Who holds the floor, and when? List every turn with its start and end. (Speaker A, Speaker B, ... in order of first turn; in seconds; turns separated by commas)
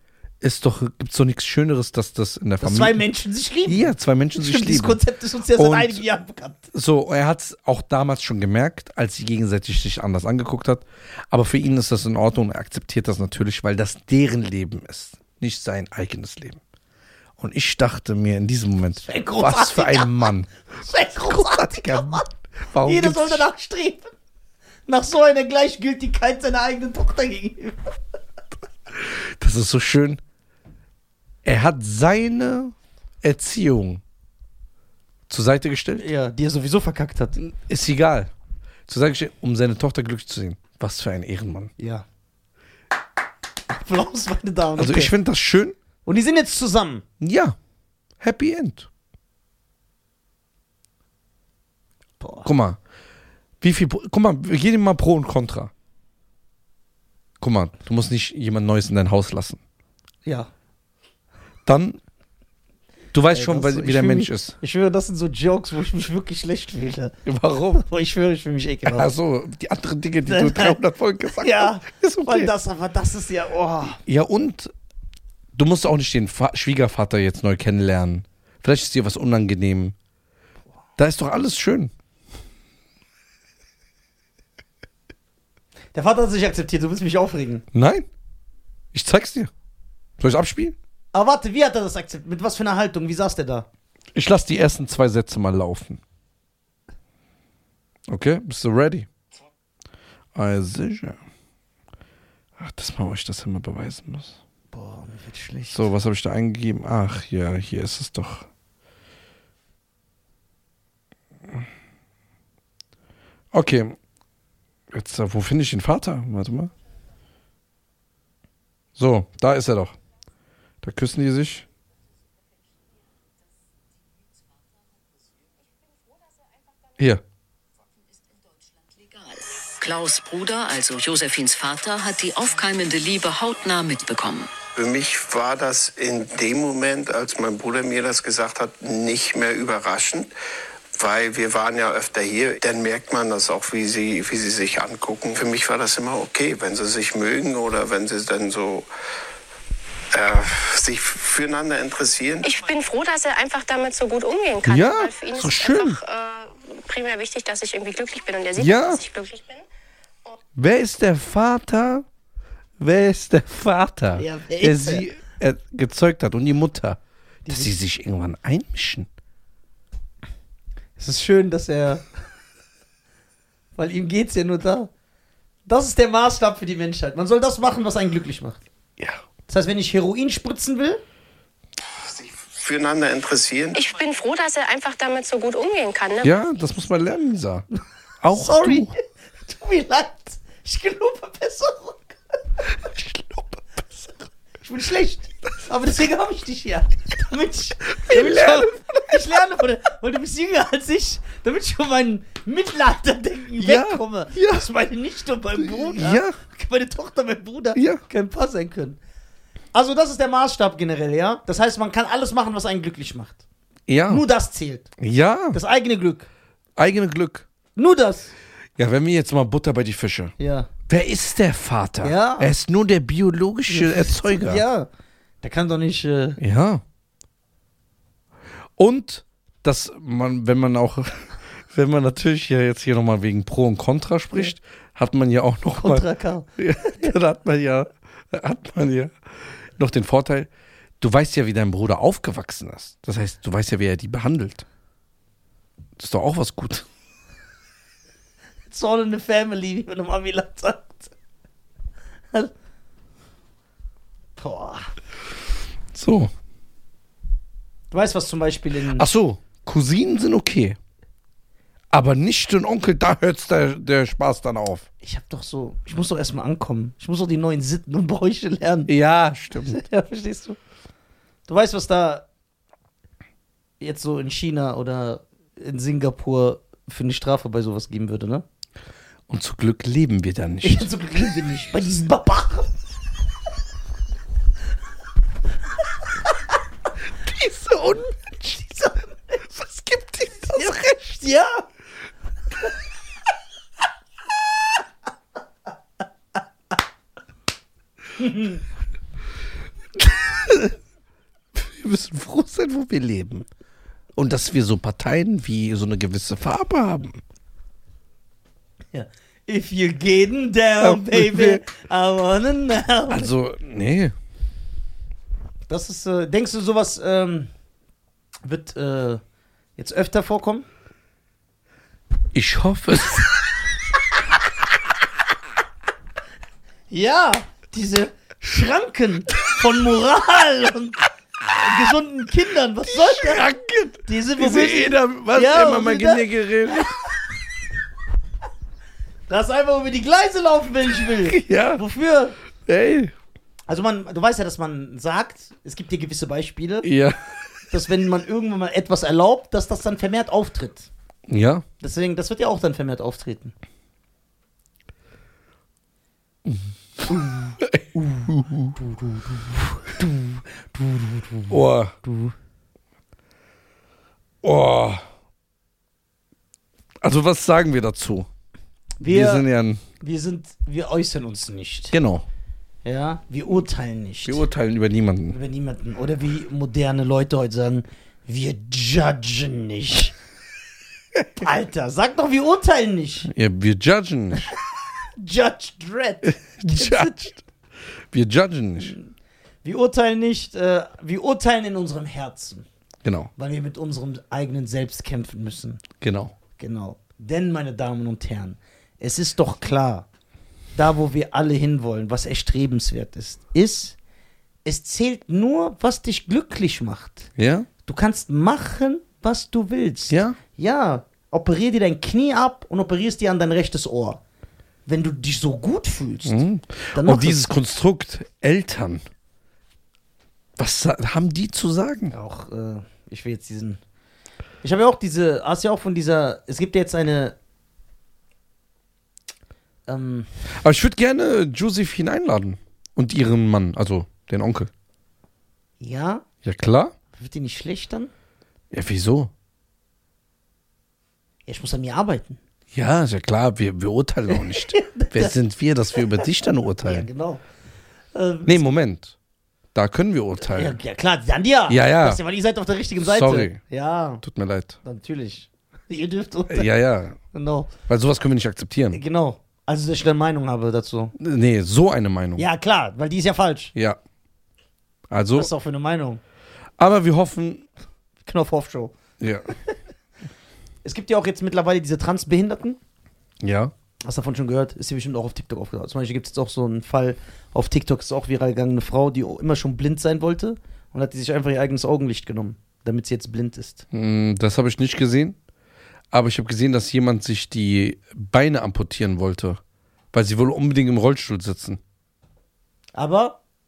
Speaker A: 0.4-3.0, Speaker B: 2.6-6.7, Speaker A: 3.6-5.0, Speaker A: 5.5-6.0, Speaker A: 6.7-16.6, Speaker A: 17.4-20.5, Speaker B: 19.0-22.3, Speaker A: 21.2-23.4, Speaker B: 22.8-24.1, Speaker B: 24.9-28.0, Speaker A: 28.9-30.2, Speaker A: 31.4-34.0, Speaker A: 35.3-36.0, Speaker B: 36.0-37.4, Speaker A: 37.4-38.3, Speaker A: 38.9-41.7, Speaker B: 41.8-42.1, Speaker B: 43.7-45.1, Speaker A: 44.8-45.8, Speaker B: 46.1-47.0, Speaker A: 47.2-47.6, Speaker A: 48.2-48.9, Speaker B: 52.2-52.5, Speaker A: 52.5-52.8, Speaker A: 53.6-55.7, Speaker A: 57.4-59.6, Speaker B: 60.2-60.5, Speaker A: 61.7-62.0, Speaker A: 63.1-64.5, Speaker B: 63.3-67.2, Speaker A: 67.3-67.8, Speaker B: 67.7-69.1, Speaker A: 68.9-72.5, Speaker B: 70.3-70.8, Speaker B: 71.4-74.0, Speaker A: 74.0-74.7, Speaker A: 75.5-80.0, Speaker A: 81.0-81.9, Speaker B: 85.9-87.7, Speaker A: 87.7-88.1, Speaker A: 88.9-89.5, Speaker A: 90.2-90.8, Speaker B: 91.1-93.7, Speaker A: 94.1-96.0, Speaker A: 98.1-99.1, Speaker A: 100.3-101.2, Speaker A: 102.6-104.4, Speaker B: 104.7-105.9, Speaker A: 105.7-108.5, Speaker A: 113.5-114.0, Speaker A: 114.9-116.7, Speaker A: 119.0-120.0, Speaker A: 120.8-121.7, Speaker C: 129.0-134.5, Speaker D: 134.8-140.3, Speaker D: 140.9-148.9, Speaker D: 150.1-152.5, Speaker E: 152.4-159.6, Speaker A: 154.6-156.0, Speaker A: 158.6-159.0, Speaker A: 160.6-162.1, Speaker A: 162.8-169.1, Speaker B: 164.2-165.1, Speaker B: 167.5-167.7, Speaker B: 171.0-172.1, Speaker B: 173.8-174.9, Speaker B: 175.7-178.6, Speaker B: 179.5-181.0, Speaker D: 182.0-183.8, Speaker E: 183.8-186.3, Speaker A: 186.2-187.7, Speaker A: 188.2-188.9, Speaker B: 188.3-192.2, Speaker A: 192.8-194.1, Speaker B: 194.6-209.0, Speaker A: 198.0-199.2, Speaker A: 203.6-204.7, Speaker A: 205.6-206.4, Speaker A: 207.8-208.0, Speaker B: 209.7-213.4, Speaker A: 213.9-214.2, Speaker B: 214.1-214.9, Speaker A: 215.0-215.6, Speaker B: 215.5-216.3, Speaker A: 216.8-217.5, Speaker B: 217.8-218.3, Speaker A: 218.8-220.3, Speaker B: 220.4-220.7, Speaker A: 220.9-224.6, Speaker B: 222.0-222.5, Speaker B: 223.7-224.9, Speaker B: 225.4-226.4, Speaker A: 226.4-226.8, Speaker A: 228.8-239.2, Speaker B: 235.7-237.1, Speaker A: 239.8-240.5, Speaker A: 241.0-244.7, Speaker A: 246.0-246.9, Speaker B: 248.7-251.1, Speaker B: 254.4-254.9, Speaker A: 255.9-256.3, Speaker B: 257.9-259.1, Speaker A: 258.9-260.8, Speaker A: 261.9-264.9, Speaker B: 265.0-268.9, Speaker A: 268.9-269.8, Speaker B: 269.7-270.6, Speaker B: 271.5-272.2, Speaker B: 273.8-278.4, Speaker A: 279.3-280.9, Speaker B: 280.6-282.7, Speaker A: 287.1-288.7, Speaker B: 288.7-289.4, Speaker A: 289.5-291.2, Speaker B: 290.5-291.6, Speaker B: 298.2-298.6, Speaker A: 300.0-300.7, Speaker A: 301.5-303.5, Speaker A: 304.1-307.2, Speaker B: 308.9-313.3, Speaker A: 310.8-311.6, Speaker A: 313.1-314.1, Speaker B: 315.7-317.5, Speaker B: 318.4-319.2, Speaker B: 319.8-320.7, Speaker A: 322.3-323.3, Speaker B: 326.9-333.5, Speaker A: 332.9-337.0, Speaker B: 334.1-336.9, Speaker B: 339.3-342.4, Speaker A: 341.3-341.8, Speaker A: 342.7-343.1, Speaker B: 343.7-346.9, Speaker A: 346.8-347.4, Speaker B: 347.7-350.9, Speaker A: 351.3-351.6, Speaker B: 351.8-353.5, Speaker A: 356.4-358.8, Speaker B: 357.1-362.3, Speaker A: 361.5-361.9, Speaker A: 364.4-365.0, Speaker A: 367.0-368.3, Speaker B: 369.0-369.5, Speaker A: 369.0-369.8, Speaker B: 370.0-371.9, Speaker A: 371.9-372.3, Speaker B: 372.9-374.4, Speaker A: 374.2-375.4, Speaker B: 375.3-380.1, Speaker B: 381.4-383.3, Speaker A: 383.3-384.5, Speaker B: 385.2-387.3, Speaker A: 386.3-387.4, Speaker A: 388.1-388.9, Speaker B: 388.8-389.1, Speaker B: 389.6-392.7, Speaker A: 393.0-393.3, Speaker B: 393.4-395.8, Speaker A: 396.0-396.3, Speaker B: 396.6-400.1, Speaker B: 400.8-404.0, Speaker B: 404.6-407.3, Speaker A: 407.4-407.7, Speaker B: 407.9-414.2, Speaker A: 410.1-410.4, Speaker B: 414.9-416.4, Speaker A: 416.3-419.0, Speaker B: 416.9-417.5, Speaker A: 420.6-422.1, Speaker B: 422.1-423.8, Speaker B: 424.6-427.4, Speaker B: 429.9-430.3, Speaker A: 430.6-434.7, Speaker B: 435.8-436.2, Speaker A: 436.4-436.9, Speaker B: 437.2-438.1, Speaker A: 438.7-439.3, Speaker B: 441.5-442.4, Speaker A: 442.7-447.1, Speaker B: 444.4-445.4, Speaker B: 446.0-446.2, Speaker B: 446.8-447.4, Speaker B: 448.1-448.7, Speaker A: 448.5-449.1, Speaker A: 449.7-450.8, Speaker B: 450.5-454.2, Speaker A: 451.7-452.2, Speaker A: 453.0-453.6, Speaker A: 454.2-454.8, Speaker B: 454.8-456.7, Speaker A: 456.5-457.2, Speaker B: 457.3-457.7, Speaker A: 457.9-459.0, Speaker B: 458.9-461.1, Speaker A: 461.2-462.5, Speaker B: 462.4-463.7, Speaker A: 465.1-465.5, Speaker B: 465.4-466.2, Speaker A: 466.8-467.7, Speaker B: 468.2-468.9, Speaker A: 469.2-469.5, Speaker B: 470.8-472.8, Speaker A: 473.4-473.7, Speaker B: 474.0-483.9, Speaker A: 483.9-485.4, Speaker A: 486.1-489.6, Speaker A: 490.1-491.8, Speaker B: 493.0-493.4